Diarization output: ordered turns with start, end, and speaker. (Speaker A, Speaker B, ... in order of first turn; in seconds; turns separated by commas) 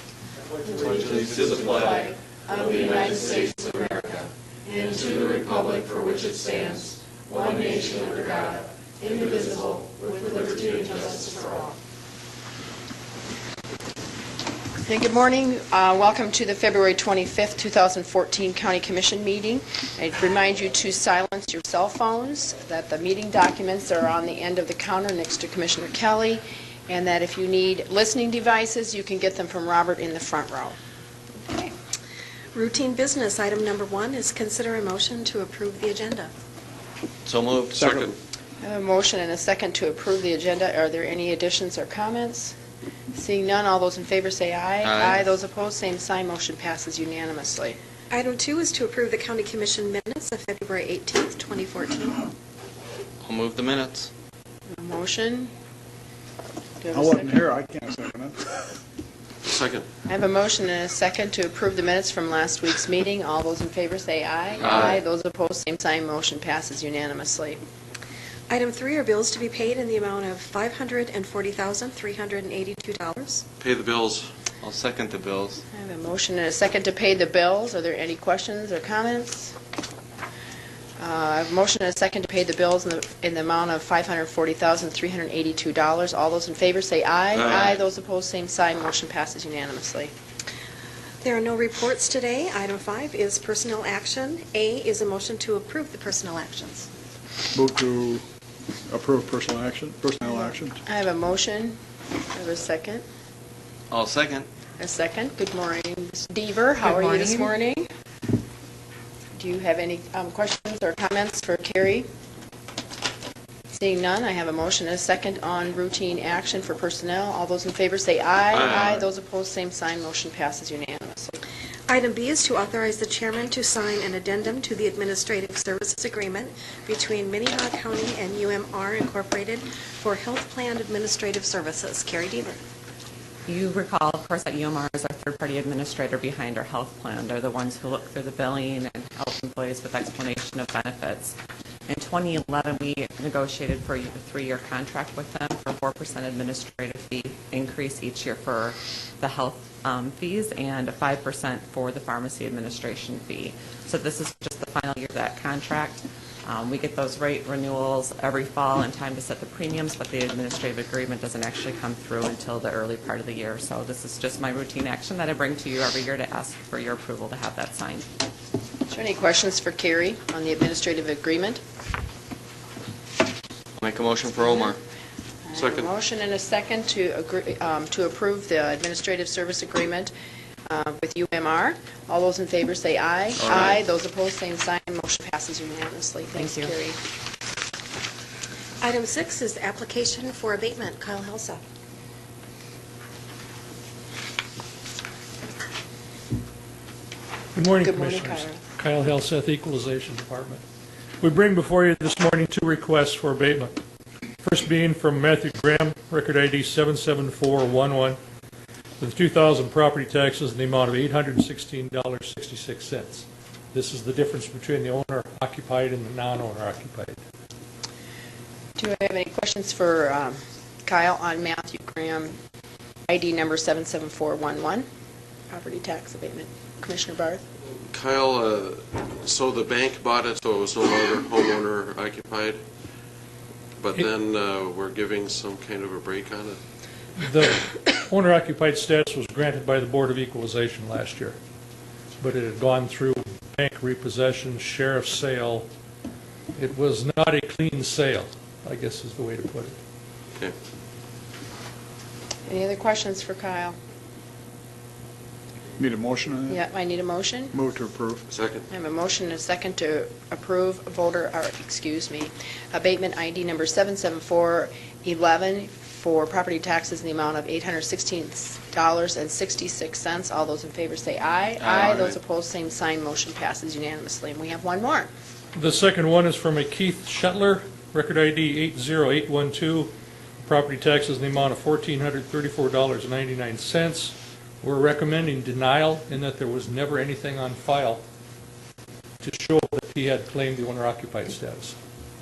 Speaker A: 0.8-4.2, Speaker B: 1.0-2.0, Speaker B: 2.6-3.7, Speaker A: 7.3-11.5, Speaker A: 14.8-30.8, Speaker C: 31.5-31.7, Speaker C: 32.5-36.3, Speaker B: 37.3-37.7, Speaker D: 37.7-38.1, Speaker E: 37.8-38.1, Speaker A: 38.6-42.5, Speaker A: 43.1-47.8, Speaker B: 44.8-45.1, Speaker C: 48.1-52.3, Speaker B: 53.2-54.1, Speaker A: 54.7-55.5, Speaker A: 56.8-57.4, Speaker D: 56.9-58.4, Speaker E: 59.4-59.9, Speaker A: 60.1-67.6, Speaker C: 68.5-73.4, Speaker E: 73.6-74.3, Speaker B: 74.6-75.0, Speaker A: 75.7-79.5, Speaker A: 81.0-90.1, Speaker E: 87.3-87.8, Speaker C: 91.2-96.9, Speaker D: 97.5-98.2, Speaker D: 98.9-100.8, Speaker A: 100.8-101.8, Speaker A: 102.3-103.0, Speaker B: 103.9-104.5, Speaker A: 104.8-107.9, Speaker F: 106.8-107.5, Speaker A: 109.4-112.1, Speaker A: 113.7-121.4, Speaker E: 118.5-119.1, Speaker C: 121.9-132.6, Speaker F: 133.5-141.4, Speaker F: 141.9-168.1, Speaker A: 168.9-171.6, Speaker B: 173.8-174.8, Speaker A: 175.5-180.1, Speaker E: 175.5-175.9, Speaker A: 180.7-187.0, Speaker F: 186.3-186.7, Speaker C: 188.8-191.6, Speaker G: 197.6-200.6, Speaker A: 197.7-198.6, Speaker G: 201.2-203.7, Speaker G: 204.4-208.2, Speaker G: 209.0-217.2, Speaker A: 218.8-222.3, Speaker A: 223.1-224.9, Speaker A: 225.5-227.4, Speaker E: 227.9-232.6, Speaker E: 233.8-236.6, Speaker G: 237.2-241.3, Speaker G: 242.2-245.7, Speaker G: 246.6-249.8, Speaker A: 252.5-253.8, Speaker D: 255.8-256.6, Speaker A: 256.5-257.5, Speaker D: 257.5-258.2, Speaker E: 258.3-258.7, Speaker A: 258.7-275.1, Speaker G: 275.5-288.0, Speaker G: 289.2-291.7